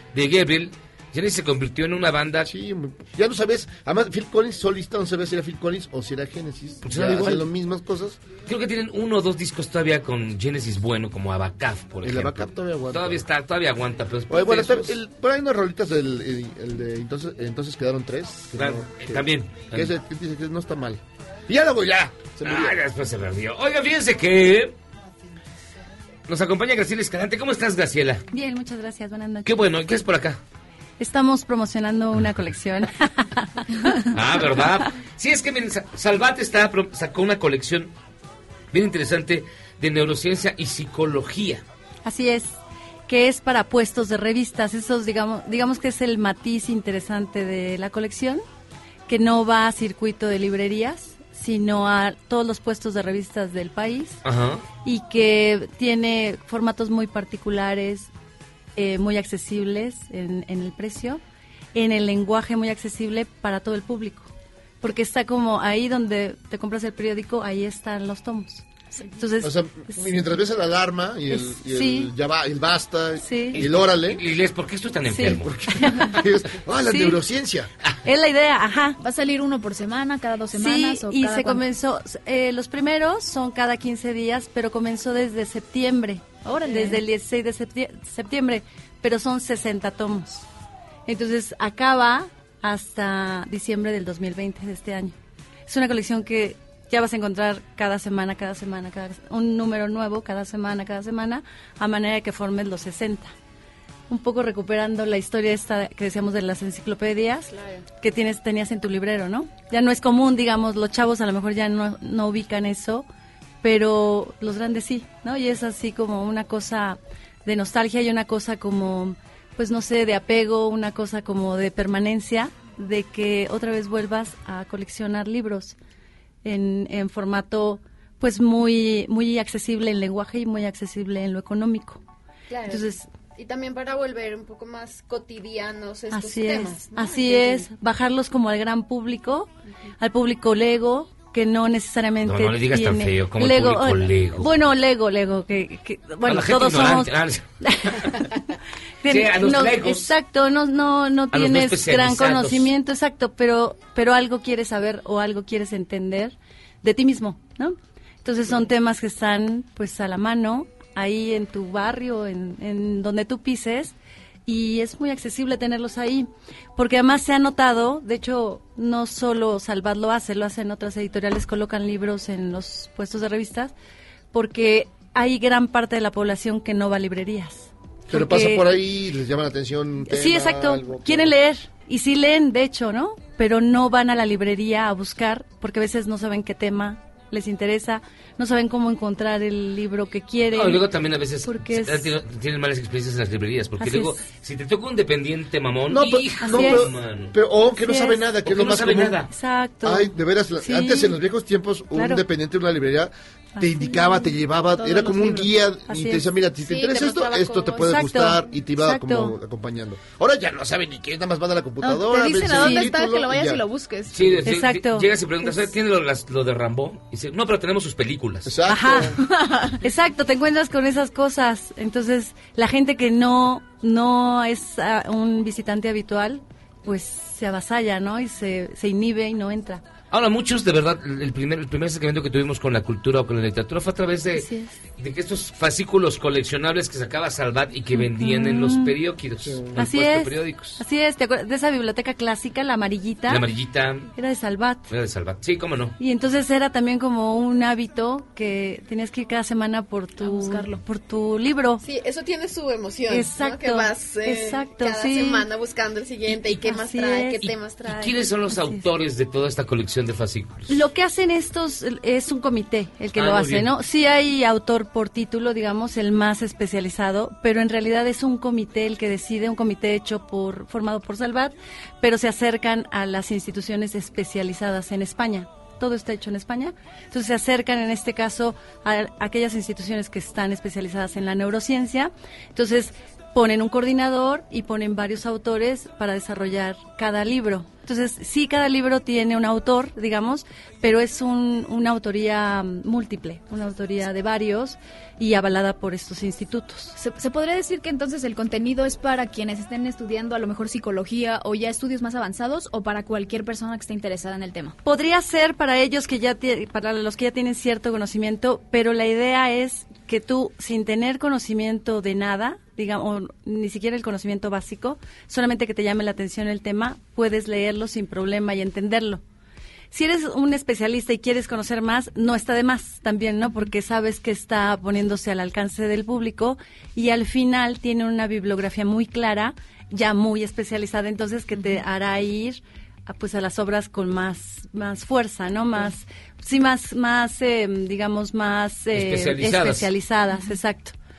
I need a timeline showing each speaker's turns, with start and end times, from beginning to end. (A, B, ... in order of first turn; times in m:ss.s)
0:00.1-0:02.5 A
0:02.4-0:08.2 B
0:06.8-0:07.5 A
0:08.5-0:14.9 A
0:12.0-0:13.2 B
0:14.3-0:22.8 B
0:18.5-0:19.9 A
0:22.4-0:24.8 A
0:26.3-0:28.2 A
0:28.3-0:29.5 C
0:29.4-0:30.4 A
0:31.0-0:34.7 C
0:34.1-0:37.9 A
0:38.7-0:41.6 A
0:42.0-0:42.5 C
0:43.1-0:48.4 C
0:49.1-0:54.2 C
0:54.2-0:54.6 A
0:54.8-0:58.1 C
0:58.8-1:01.2 C
1:01.8-1:04.3 C
1:04.8-1:08.7 C
1:09.2-1:10.2 C
1:09.4-1:14.2 B
1:11.3-1:12.1 C
1:13.2-1:13.6 C
1:13.6-1:15.7 A
1:15.1-1:16.2 C
1:15.2-1:17.7 B
1:16.8-1:17.2 C
1:18.1-1:19.0 C
1:19.0-1:21.6 D
1:20.5-1:30.5 C
1:26.4-1:27.0 D
1:31.1-1:35.2 C
1:35.7-1:43.3 C
1:44.1-1:53.1 C
1:47.5-1:47.8 E
1:53.6-2:05.8 C
2:06.4-2:12.0 C
2:12.5-2:17.7 E
2:12.7-2:13.1 C
2:16.1-2:28.3 C
2:22.2-2:24.6 A
2:26.2-2:28.2 A
2:29.0-2:44.0 C
2:29.1-2:30.1 A
2:31.3-2:32.7 A
2:44.5-2:53.7 C
2:54.3-2:58.8 C
2:58.1-3:01.4 B
3:00.0-3:10.8 C
3:10.5-3:17.3 A
3:11.4-3:12.1 C
3:13.8-3:14.2 C
3:15.9-3:19.2 B
3:16.4-3:16.9 C
3:17.6-3:18.3 C
3:18.4-3:19.3 A
3:19.3-3:21.2 C
3:19.8-3:33.6 B
3:21.9-3:22.2 C
3:23.6-3:24.3 C
3:24.8-3:25.6 D
3:25.8-3:26.4 C
3:26.6-3:27.9 E
3:27.7-3:29.4 C
3:31.8-3:34.2 D
3:32.5-3:32.9 C
3:34.1-3:38.5 A
3:34.4-3:35.5 C
3:38.5-3:39.1 B
3:38.6-3:49.8 C
3:39.2-3:39.6 D
3:50.1-4:00.8 A
3:54.4-3:54.7 C
3:57.9-3:59.0 C
3:59.4-3:59.7 B
3:59.8-4:03.4 C
4:03.3-4:04.1 A
4:04.2-4:04.9 C
4:04.9-4:06.0 A
4:06.0-4:11.8 C
4:10.2-4:10.8 D
4:11.8-4:18.3 E
4:13.1-4:15.5 C
4:16.3-4:17.4 C
4:17.4-4:20.8 A
4:18.5-4:18.8 C
4:20.7-4:56.9 C
4:23.1-4:23.7 A
4:57.0-5:04.8 D
5:04.8-5:19.2 C
5:19.9-5:41.0 C
5:38.9-5:39.9 A